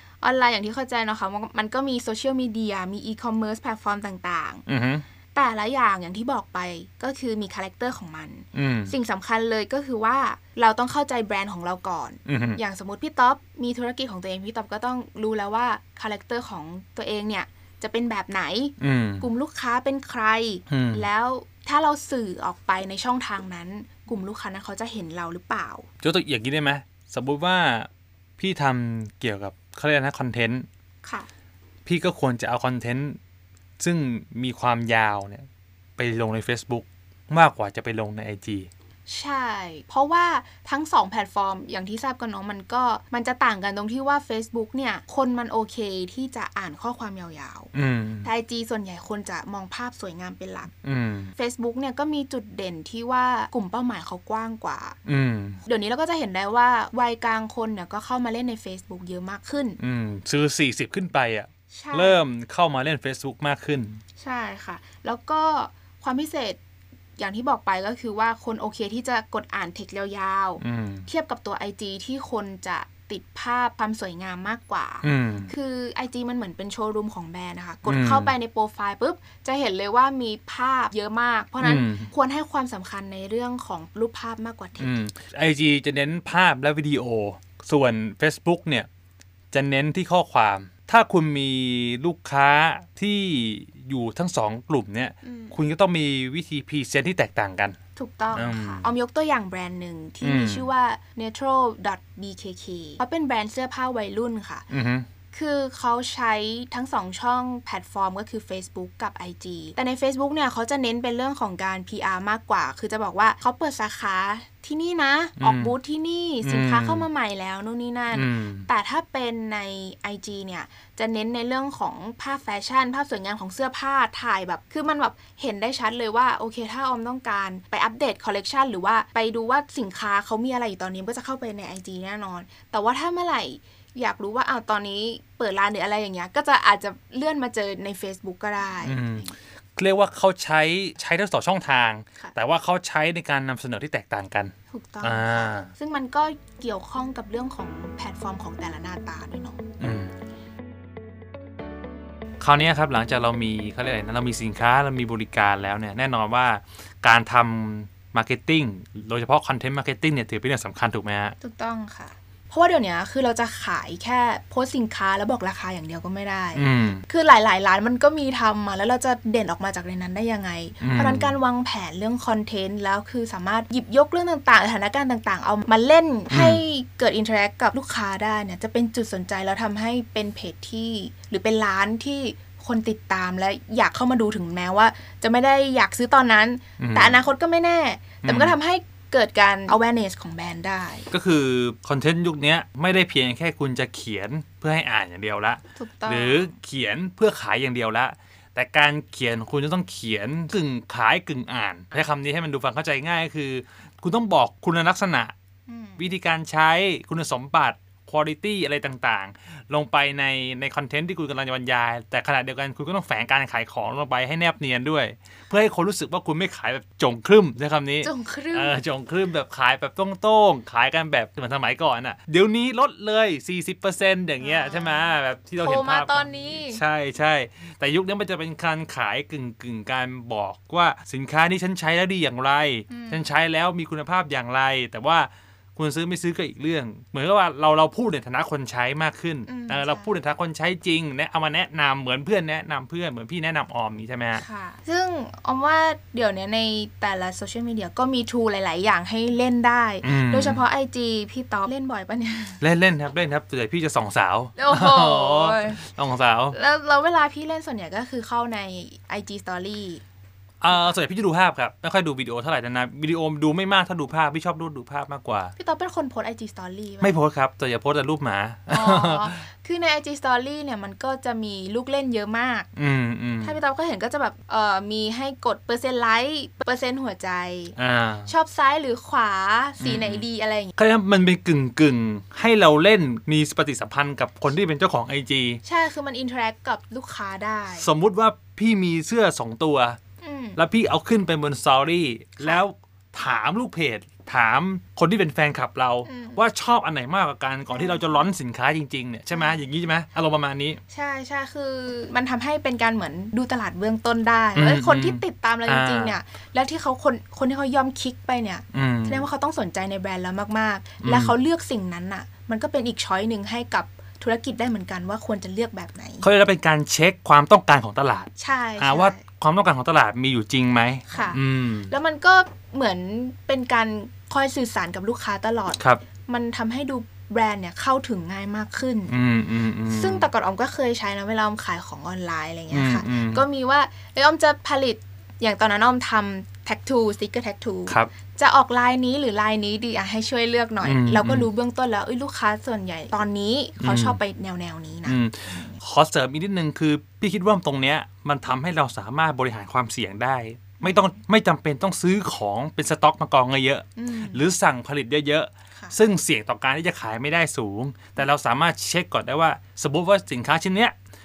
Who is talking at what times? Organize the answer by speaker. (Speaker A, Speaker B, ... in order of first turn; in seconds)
Speaker A: 0.2-4.6, 5.3-25.9, 31.0-31.3, 39.1-47.7, 48.2-50.7, 51.4-55.0, 55.6-59.8, 61.7-62.2, 64.2-66.6, 67.2-85.0, 95.2-95.6, 98.0-104.7, 105.3-139.2, 144.7-149.6, 161.4-191.1, 195.8-196.5, 205.7-206.1, 218.0-218.8, 224.4-226.8, 232.9-233.3, 239.5-240.1, 244.3-252.6, 254.6-255.8, 256.5-260.0, 265.6-267.2, 268.7-272.7, 273.4-277.8, 278.3-280.7, 285.6-287.9, 290.2-290.6, 296.1-296.5, 297.7-298.2, 299.3-299.6, 300.9-316.3, 318.4-319.2, 321.1-329.2, 329.9-345.8, 350.8-351.1, 354.0-354.4
Speaker B: 4.7-5.0, 8.5-8.9, 12.3-12.6, 18.8-19.3, 20.7-21.1, 26.0-27.9, 28.4-30.7, 31.9-33.2, 33.8-35.5, 36.0-38.7, 47.7-48.3, 50.8-51.3, 55.1-55.6, 59.8-64.0, 70.6-71.1, 75.0-75.5, 77.9-78.3, 81.6-82.1, 84.8-88.9, 89.5-97.8, 98.3-98.9, 100.2-100.7, 104.7-105.1, 115.4-115.7, 116.4-117.1, 118.1-118.7, 138.8-145.7, 149.8-150.1, 152.4-161.3, 166.6-167.0, 170.8-171.3, 176.3-176.6, 186.8-187.2, 188.2-188.6, 191.1-205.3, 206.0-244.4, 250.0-250.6, 252.6-256.6, 260.6-265.5, 267.0-269.4, 272.8-273.6, 277.8-278.3, 279.8-280.3, 280.8-285.6, 287.8-290.0, 290.6-300.8, 304.6-306.2, 308.7-309.2, 311.0-311.3, 316.2-321.9, 325.8-326.0, 329.1-330.3, 332.7-333.4, 340.8-341.5, 343.8-344.2, 345.1-360.9